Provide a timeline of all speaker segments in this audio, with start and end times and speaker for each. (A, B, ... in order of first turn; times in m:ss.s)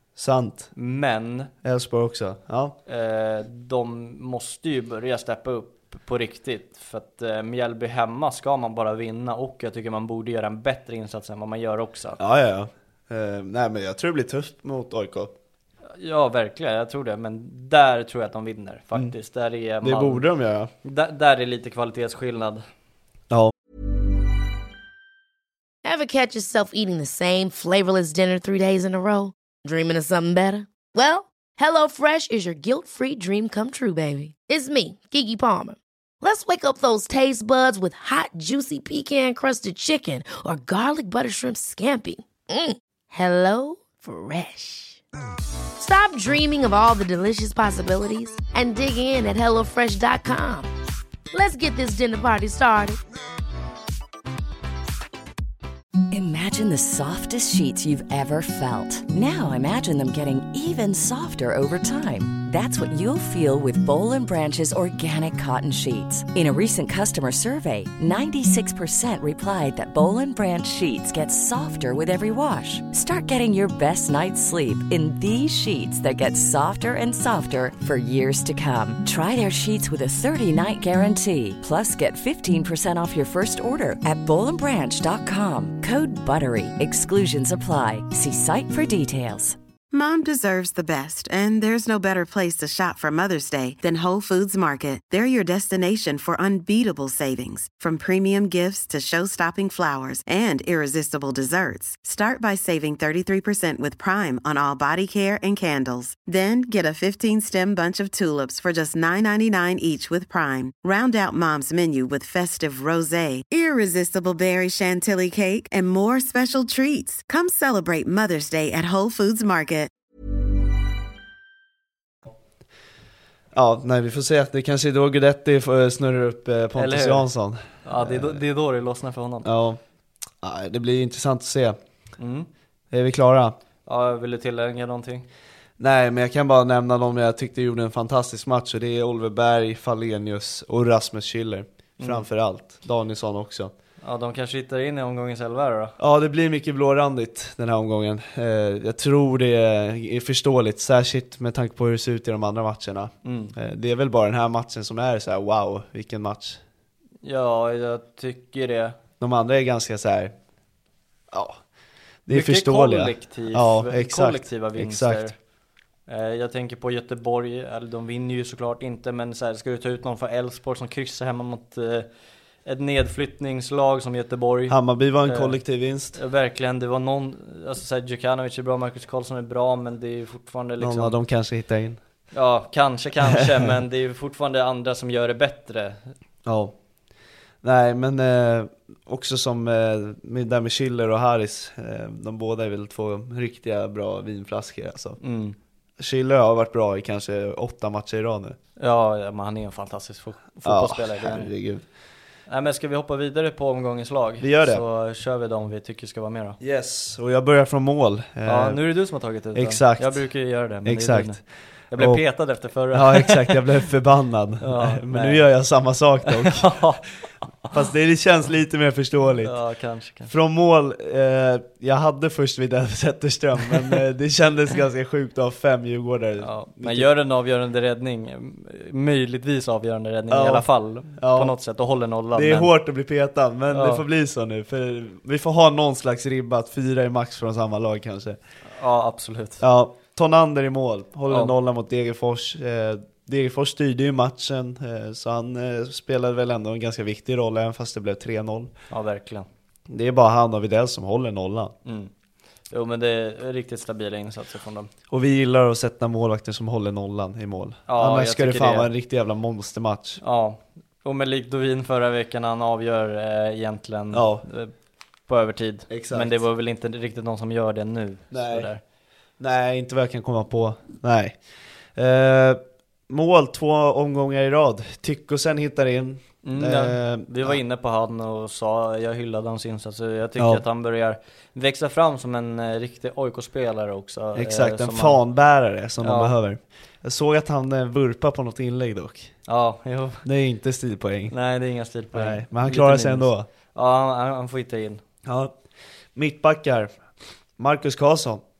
0:00.2-0:00.7 A
0:00.7-0:01.5 B
0:01.6-0:02.8 A
0:02.9-0:12.2 B
0:12.2-0:15.3 A
0:15.9-0:20.2 B
0:19.8-0:20.7 A
0:20.8-0:22.6 B
0:25.8-0:45.0 C
0:45.8-0:50.7 C
0:51.3-0:53.0 C
0:56.1-1:29.6 D
1:29.9-1:59.9 E
2:03.5-2:08.4 A
2:06.8-2:07.3 B
2:07.8-2:09.5 B
2:09.4-2:09.8 A
2:10.4-2:11.8 A
2:12.2-2:12.5 B
2:12.9-2:13.5 A
2:13.8-2:15.3 B
2:15.8-2:23.7 A
2:22.0-2:22.2 B
2:24.0-2:25.9 B
2:26.0-2:36.6 A
2:33.2-2:33.5 B
2:37.2-2:39.0 B
2:39.2-2:40.3 A
2:41.3-2:41.6 A
2:42.3-2:45.3 A
2:42.3-2:45.3 B
2:46.1-2:52.1 B
2:52.6-2:55.6 B
2:54.7-2:56.2 A
2:56.1-3:01.1 B
3:00.8-3:02.0 A
3:02.3-3:06.1 B
3:03.3-3:03.7 A
3:06.4-3:06.7 A
3:07.6-3:15.2 A
3:15.2-3:15.6 B
3:16.0-3:18.6 A
3:18.8-3:21.5 B
3:20.6-3:21.8 A
3:22.5-3:26.6 B
3:24.4-3:24.8 A
3:26.6-3:28.8 A
3:28.4-3:31.4 B
3:29.5-3:30.2 A
3:30.8-3:31.4 A
3:31.9-3:33.6 B
3:32.0-3:32.2 A
3:32.9-3:36.8 A
3:34.6-3:35.4 B
3:36.3-3:37.0 B
3:37.7-3:39.5 A
3:39.4-3:40.3 B
3:40.3-3:47.1 A
3:46.4-3:52.7 B
3:50.3-3:51.5 A
3:52.3-3:58.4 A
3:53.7-3:54.0 B
3:58.7-3:59.6 B
3:59.6-4:08.7 A
4:01.3-4:01.5 B
4:08.9-4:09.5 B
4:09.9-4:11.7 A
4:11.8-4:12.1 B
4:12.7-4:14.9 B
4:15.1-4:20.2 A
4:17.9-4:18.9 B
4:20.2-4:24.7 B
4:24.1-4:24.4 A
4:25.3-4:28.8 B
4:25.9-4:26.4 A
4:28.3-4:28.7 A
4:29.4-4:31.4 A
4:32.0-4:37.6 A
4:36.4-4:45.2 B
4:44.3-4:49.3 A
4:46.0-4:46.3 B
4:49.5-4:50.2 B
4:50.2-4:51.3 A
4:51.3-4:55.0 B
4:52.1-4:53.5 A
4:55.2-4:55.5 A
4:56.1-4:56.9 A
4:57.6-4:58.4 A